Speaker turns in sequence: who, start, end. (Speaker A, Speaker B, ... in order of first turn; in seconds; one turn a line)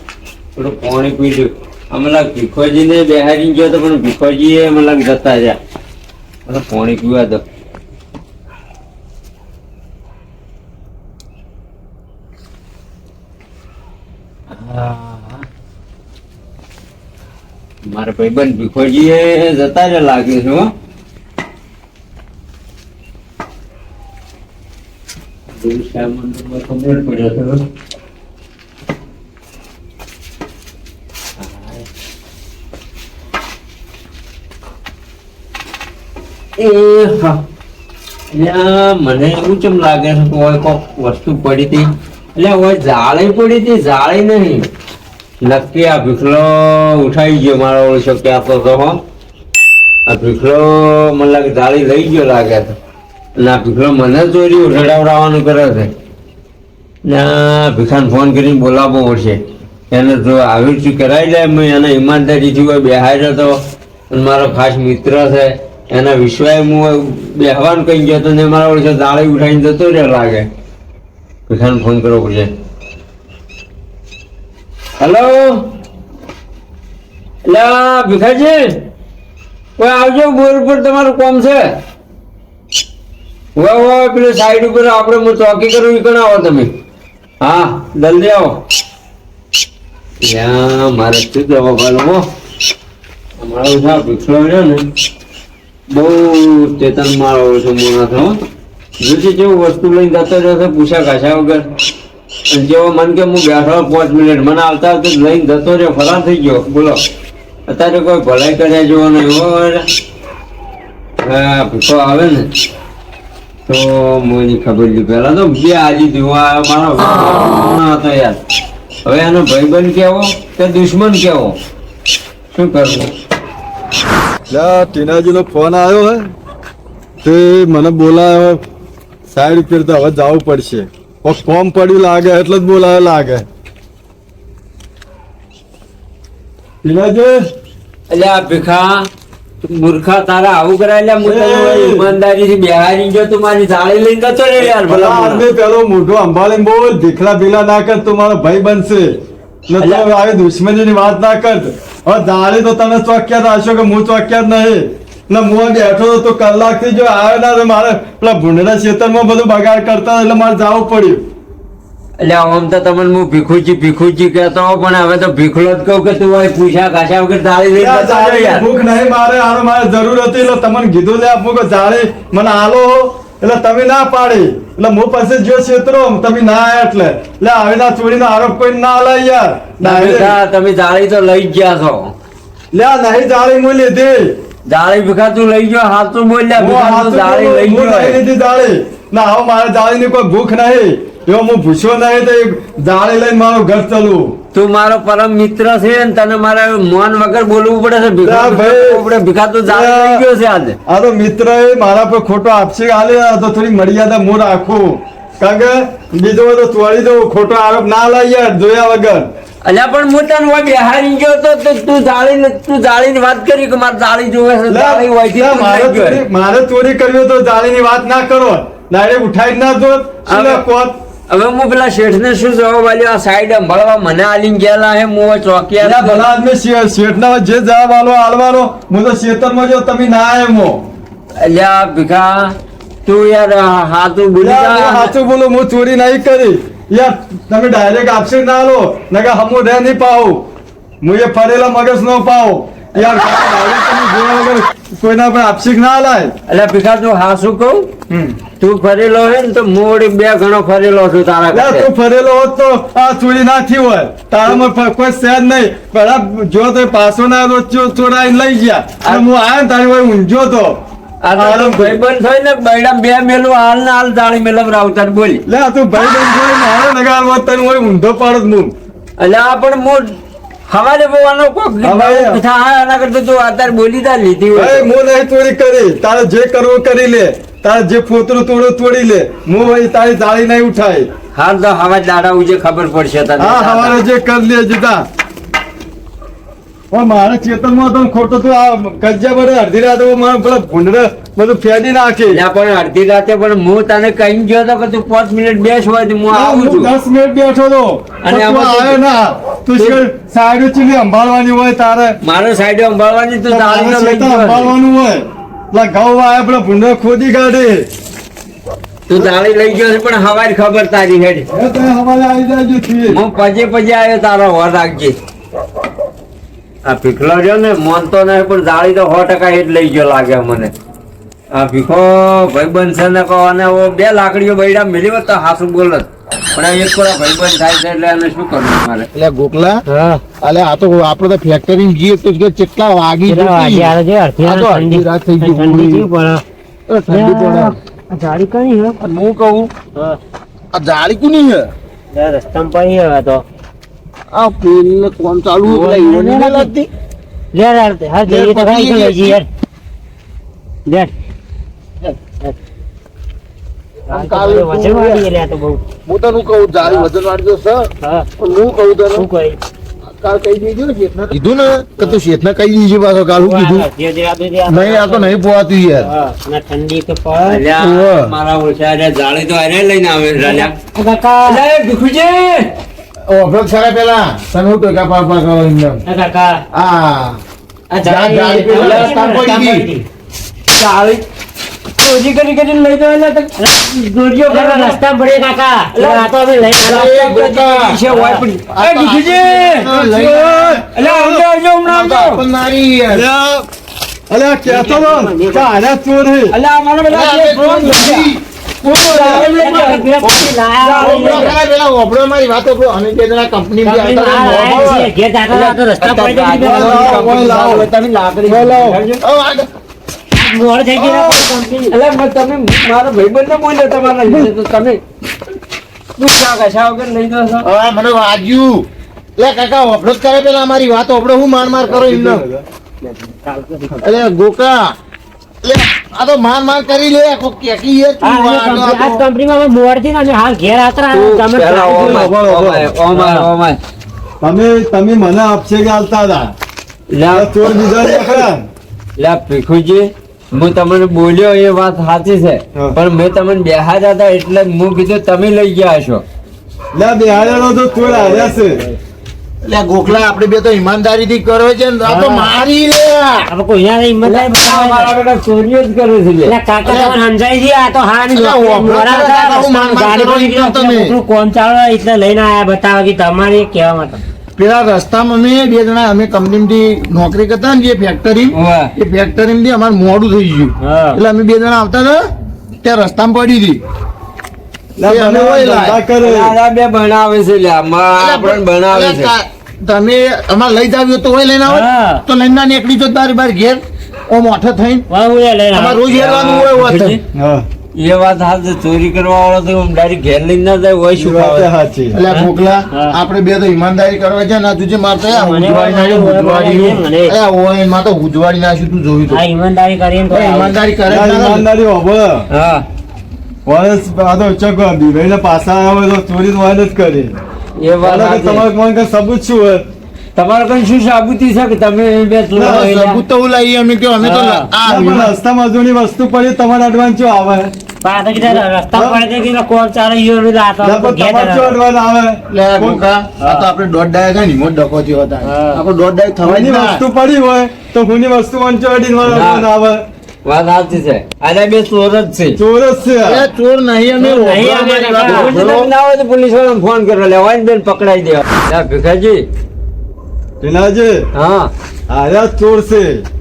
Speaker A: 0.6-5.6
Speaker A: 6.5-7.4
Speaker A: 17.8-20.7
Speaker A: 25.6-27.6
Speaker A: 31.4-31.8
Speaker A: 36.6-37.4
Speaker A: 38.3-44.6
Speaker A: 45.4-49.0
Speaker A: 50.1-52.7
Speaker A: 53.4-55.9
Speaker A: 57.0-59.4
Speaker A: 59.9-63.5
Speaker A: 64.1-70.5
Speaker A: 71.5-72.5
Speaker A: 75.0-75.6
Speaker A: 77.5-78.7
Speaker A: 79.8-81.7
Speaker A: 83.5-86.7
Speaker A: 87.4-88.6
Speaker A: 90.2-92.2
Speaker A: 93.4-94.8
Speaker A: 95.9-98.4
Speaker A: 99.0-101.6
Speaker A: 102.5-107.0
Speaker A: 107.7-109.8
Speaker A: 111.2-112.5
Speaker A: 113.7-118.4
Speaker A: 119.0-121.5
Speaker A: 122.5-123.1
Speaker B: 124.5-126.2
Speaker B: 127.2-128.6
Speaker B: 129.3-133.4
Speaker B: 136.8-137.4
Speaker A: 138.1-139.1
Speaker A: 139.6-145.5
Speaker B: 141.2-142.0
Speaker B: 144.6-149.1
Speaker B: 149.7-161.2
Speaker A: 149.8-150.1
Speaker A: 162.2-168.7
Speaker B: 167.7-180.3
Speaker A: 179.8-182.1
Speaker B: 182.7-184.3
Speaker A: 184.7-188.2
Speaker B: 186.6-194.3
Speaker A: 194.5-200.8
Speaker B: 198.2-199.0
Speaker B: 199.7-200.2
Speaker B: 200.9-209.3
Speaker A: 209.6-216.2
Speaker B: 214.7-220.9
Speaker A: 220.2-220.7
Speaker A: 221.3-226.2
Speaker B: 225.8-230.8
Speaker A: 231.4-232.5
Speaker A: 233.1-235.1
Speaker B: 234.4-240.4
Speaker B: 241.0-246.3
Speaker A: 246.5-247.9
Speaker B: 248.1-248.4
Speaker A: 248.6-251.9
Speaker B: 251.5-260.8
Speaker A: 259.0-259.3
Speaker A: 261.2-265.4
Speaker B: 261.3-262.0
Speaker B: 265.5-268.7
Speaker A: 269.2-270.1
Speaker A: 270.7-274.9
Speaker B: 271.8-272.4
Speaker B: 274.5-281.1
Speaker A: 281.3-284.0
Speaker B: 283.4-285.0
Speaker B: 286.9-292.4
Speaker A: 292.3-296.9
Speaker B: 296.3-302.2
Speaker A: 298.2-299.0
Speaker A: 299.7-300.0
Speaker A: 302.2-304.7
Speaker B: 303.5-307.9
Speaker A: 309.1-311.4
Speaker B: 311.5-313.2
Speaker A: 313.1-315.1
Speaker A: 316.8-320.7
Speaker A: 321.5-329.1
Speaker C: 329.1-329.8
Speaker D: 329.9-330.2
Speaker C: 330.4-336.1
Speaker D: 333.3-336.4
Speaker C: 336.9-337.8
Speaker D: 337.1-339.0
Speaker C: 339.0-339.7
Speaker C: 340.7-341.7
Speaker D: 342.1-343.4
Speaker C: 344.3-346.9
Speaker D: 345.7-346.7
Speaker D: 347.5-349.5
Speaker C: 348.2-349.4
Speaker D: 350.9-351.1
Speaker C: 354.1-355.2
Speaker D: 354.1-355.8
Speaker C: 356.1-359.3
Speaker D: 358.0-358.3
Speaker D: 359.1-359.6
Speaker C: 360.2-363.9
Speaker D: 363.4-365.3
Speaker C: 364.7-366.1
Speaker D: 366.0-367.6
Speaker A: 367.4-370.7
Speaker C: 367.8-368.3
Speaker D: 370.4-371.6
Speaker A: 371.4-372.7
Speaker C: 373.2-376.0
Speaker D: 376.1-376.6
Speaker C: 376.7-377.4
Speaker A: 377.9-379.5
Speaker C: 378.0-379.9
Speaker D: 378.5-380.0
Speaker A: 380.7-381.2
Speaker A: 382.0-385.0
Speaker D: 384.5-387.2
Speaker A: 385.9-386.3
Speaker C: 386.8-388.0
Speaker A: 386.8-390.0
Speaker D: 388.1-388.4
Speaker C: 388.7-390.9
Speaker B: 389.9-391.4
Speaker A: 390.9-392.4
Speaker C: 391.8-393.2
Speaker B: 393.1-393.6
Speaker B: 394.3-396.6
Speaker D: 394.7-395.5
Speaker A: 396.5-398.3
Speaker C: 397.1-405.1
Speaker A: 398.8-400.0
Speaker D: 399.1-401.5
Speaker A: 400.8-401.6
Speaker D: 403.8-407.1
Speaker B: 404.6-405.0
Speaker A: 405.5-409.2
Speaker C: 406.6-407.3
Speaker B: 406.6-407.9
Speaker B: 408.4-409.0
Speaker C: 409.2-409.7
Speaker D: 410.4-411.9
Speaker B: 410.9-411.4
Speaker A: 411.9-415.0
Speaker A: 416.2-417.7
Speaker C: 417.6-422.4
Speaker B: 421.9-422.6
Speaker D: 423.0-424.0
Speaker C: 424.0-424.9
Speaker C: 425.6-429.2
Speaker D: 428.2-432.3
Speaker A: 431.1-433.8
Speaker B: 431.9-432.9
Speaker D: 433.1-433.5
Speaker B: 434.4-436.5
Speaker A: 437.1-437.5
Speaker B: 437.3-438.7
Speaker A: 439.2-446.2
Speaker B: 446.9-448.8
Speaker A: 447.9-448.7
Speaker C: 449.6-453.4
Speaker D: 452.0-452.5
Speaker D: 453.5-455.1
Speaker A: 454.2-456.5
Speaker D: 456.4-464.2
Speaker C: 456.8-457.1
Speaker C: 458.3-461.1
Speaker C: 464.6-472.2
Speaker A: 468.5-468.9
Speaker D: 470.8-471.2
Speaker C: 472.8-473.8
Speaker B: 475.0-476.5
Speaker C: 475.0-476.0
Speaker A: 476.2-479.3
Speaker C: 478.1-485.0
Speaker D: 481.7-482.2
Speaker D: 485.1-486.0
Speaker C: 485.7-487.2
Speaker A: 486.1-487.2
Speaker B: 487.3-487.6
Speaker A: 487.9-491.7
Speaker B: 491.2-492.2
Speaker C: 492.1-499.4
Speaker D: 492.9-493.2
Speaker D: 495.3-497.3
Speaker D: 499.3-500.8
Speaker C: 500.3-501.7
Speaker B: 501.1-502.4
Speaker A: 502.5-502.8
Speaker B: 503.6-507.3
Speaker A: 507.8-508.7
Speaker B: 508.0-509.8
Speaker A: 510.4-513.2
Speaker C: 512.5-515.3
Speaker B: 512.6-512.8
Speaker D: 514.2-514.7
Speaker B: 514.8-517.7
Speaker D: 518.0-521.8
Speaker B: 518.4-519.2
Speaker B: 520.8-523.0
Speaker C: 522.5-527.0
Speaker D: 525.4-525.8
Speaker B: 526.4-530.0
Speaker A: 529.2-529.7
Speaker A: 530.4-532.6
Speaker B: 532.5-533.4
Speaker C: 533.2-535.9
Speaker D: 534.2-535.5
Speaker A: 535.2-539.4
Speaker B: 540.6-541.2
Speaker A: 541.3-541.7
Speaker B: 542.1-543.2